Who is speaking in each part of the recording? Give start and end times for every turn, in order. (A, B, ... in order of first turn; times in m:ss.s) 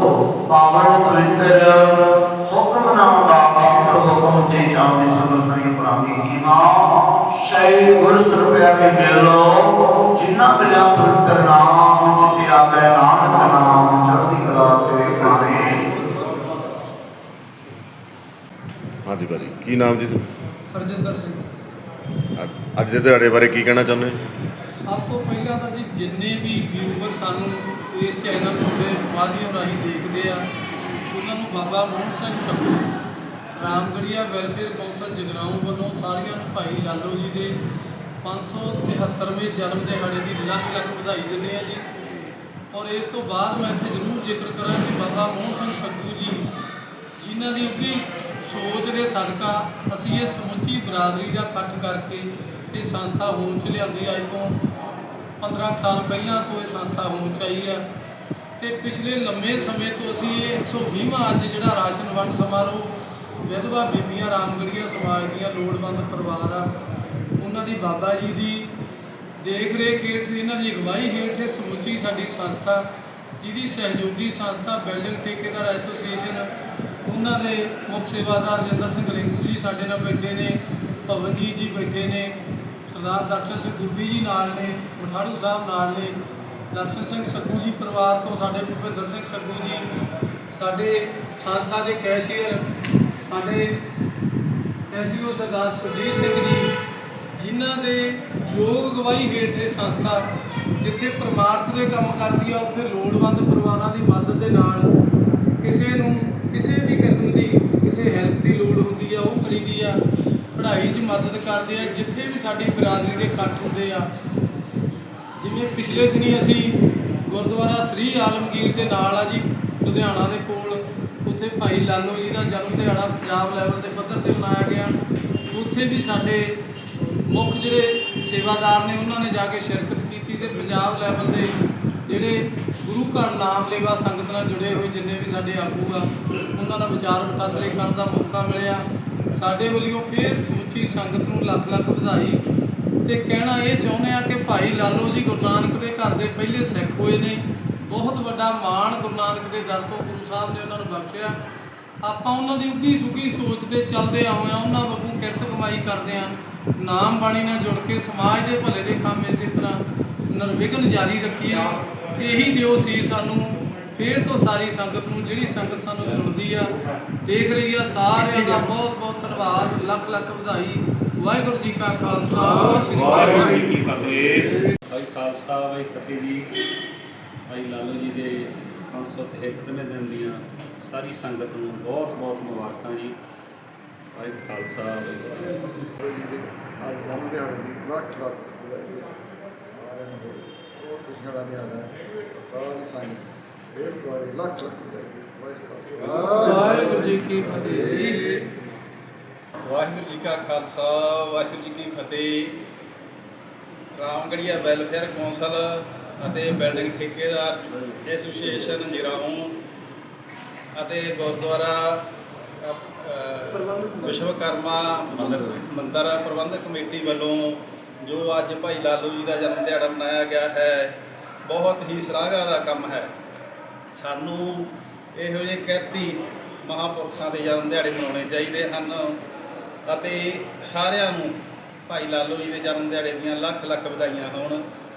0:00.5-0:16.1 A
0:19.1-0:20.2 B
0:20.7-0:21.4 C
0:22.4-0:24.2 B
0:24.8-0:30.4 C
0:31.1-0:32.8 C
0:33.6-0:37.6 C
0:38.2-0:41.8 C
0:42.7-0:46.5 C
0:47.2-0:54.6 C
0:55.4-0:57.8 C
0:58.6-1:06.7 C
1:07.4-1:08.7 C
1:09.4-1:12.8 C
1:13.4-1:16.5 C
1:17.0-1:26.2 C
1:26.7-1:29.9 C
1:30.5-1:32.7 C
1:33.2-1:33.8 C
1:34.9-1:36.7 C
1:37.4-1:40.2 C
1:40.8-1:44.9 C
1:45.6-1:50.0 C
1:50.5-1:54.1 C
1:55.4-2:04.9 C
2:05.5-2:06.6 C
2:07.3-2:11.5 C
2:12.0-2:18.8 C
2:19.3-2:22.4 C
2:23.0-2:31.4 C
2:32.0-2:53.6 C
2:52.6-2:56.5 D
2:57.5-3:03.2 D
3:04.2-3:05.4 D
3:05.4-3:09.1 E
3:09.7-3:18.5 E
3:16.3-3:18.2 C
3:19.6-3:22.6 F
3:24.0-3:29.5 F
3:30.8-3:32.0 F
3:32.6-3:41.0 F
3:41.5-3:43.1 F
3:43.9-3:49.2 F
3:49.9-3:54.6 F